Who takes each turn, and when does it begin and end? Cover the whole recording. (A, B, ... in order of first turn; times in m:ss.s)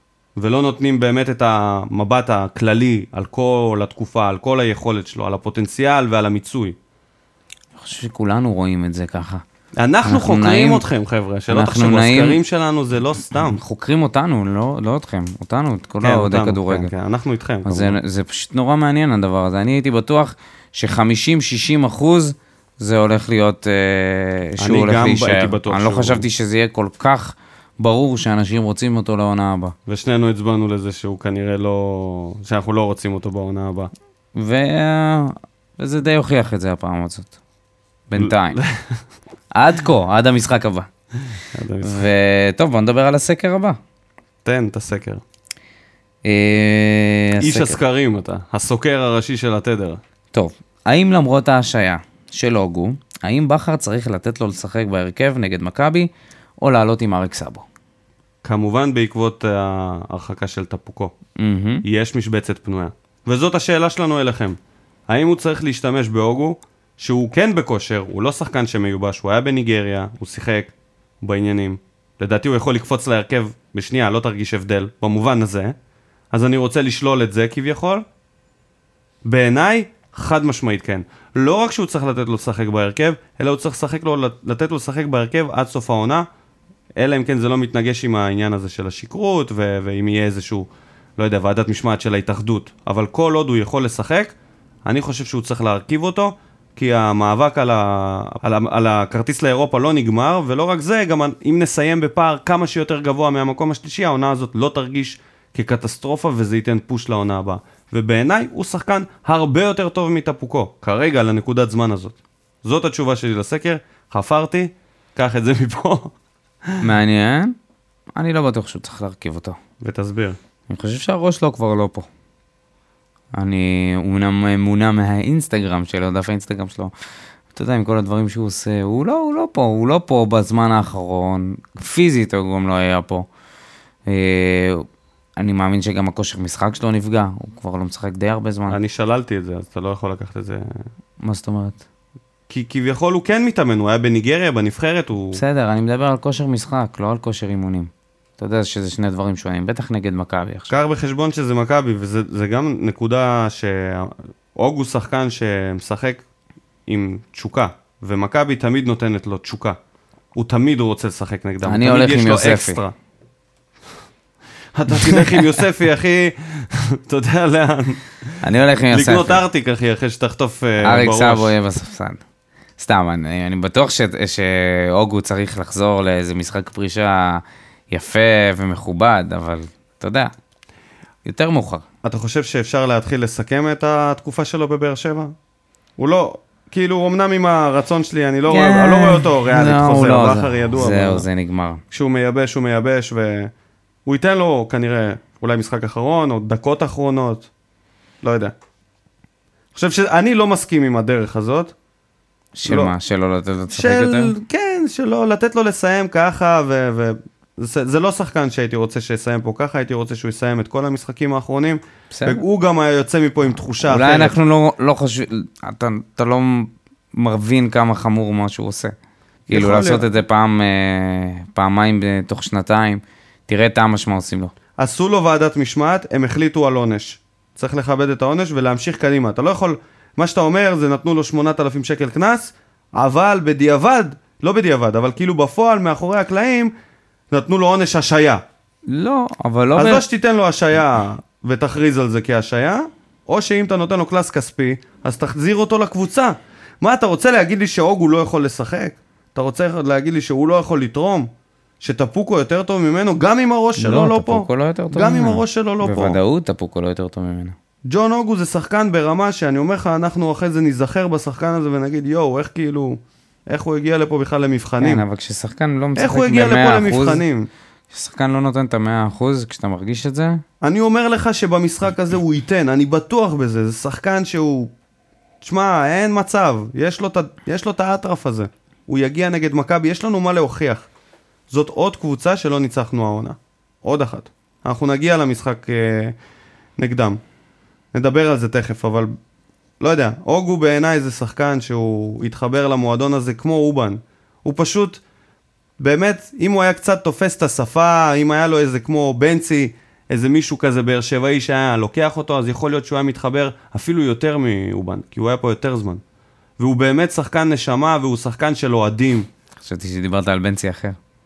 0:00.4-0:06.8 A
0:07.8-0:09.4 B
0:09.8-0:13.6 A
0:10.0-0:10.8 B
0:11.5-0:12.4 B
0:13.5-0:16.9 B
0:16.0-0:18.0 A
0:17.6-0:29.7 B
0:24.6-0:26.2 A
0:29.9-0:33.9 A
0:34.3-0:37.3 B
0:38.1-0:38.6 B
0:38.2-0:39.0 A
0:39.5-0:40.9 B
0:41.5-0:42.0 A
0:41.8-0:43.8 B
0:44.4-0:45.2 A
0:46.2-0:47.8 B
0:47.4-0:50.0 A
0:50.3-0:57.6 B
0:58.4-1:01.1 A
1:01.4-1:01.8 B
1:01.8-1:04.6 A
1:05.1-1:15.7 A
1:16.3-1:18.0 A
1:19.2-1:26.2 A
1:27.0-1:34.3 A
1:34.8-1:56.1 A
1:56.8-1:57.6 B
1:58.1-1:59.6 B
1:59.8-2:00.4 A
2:00.7-2:02.1 B
2:03.3-2:06.9 B
2:07.5-2:13.3 B
2:14.1-2:14.8 B
2:15.4-2:18.8 B
2:18.7-2:20.6 A
2:21.2-2:21.8 B
2:22.5-2:25.4 A
2:25.3-2:30.7 B
2:30.7-2:36.2 A
2:36.9-2:39.8 A
2:40.3-2:42.9 A
2:41.6-2:42.8 B
2:44.7-2:51.5 A
2:44.9-2:45.5 B
2:48.4-2:49.4 B
2:50.8-2:52.2 B
2:52.8-3:00.3 B
3:01.2-3:01.8 B
3:02.0-3:05.3 A
3:06.0-3:11.2 A
3:08.5-3:11.8 B
3:11.9-3:13.5 A
3:14.0-3:17.5 A
3:18.2-3:18.5 A
3:19.7-3:21.7 A
3:22.5-3:24.3 B
3:22.6-3:22.9 A
3:23.7-3:34.3 A
3:32.1-3:32.4 B
3:33.8-3:38.9 B
3:39.5-3:40.1 A
3:39.5-3:44.5 B
3:44.8-3:56.7 A
3:57.3-3:58.4 A
3:58.9-4:00.0 B
3:59.8-4:11.3 A
4:11.8-4:16.2 A
4:13.8-4:17.6 B
4:17.9-4:25.0 A
4:24.8-4:27.2 B
4:26.0-4:27.5 A
4:27.9-4:30.4 B
4:30.6-4:34.7 A
4:35.4-4:40.9 A
4:41.5-4:46.1 A
4:46.8-4:47.2 A
4:47.9-4:49.1 A
4:49.8-4:55.0 A
4:55.8-5:06.0 A
5:06.6-5:09.3 A
5:09.6-5:11.0 B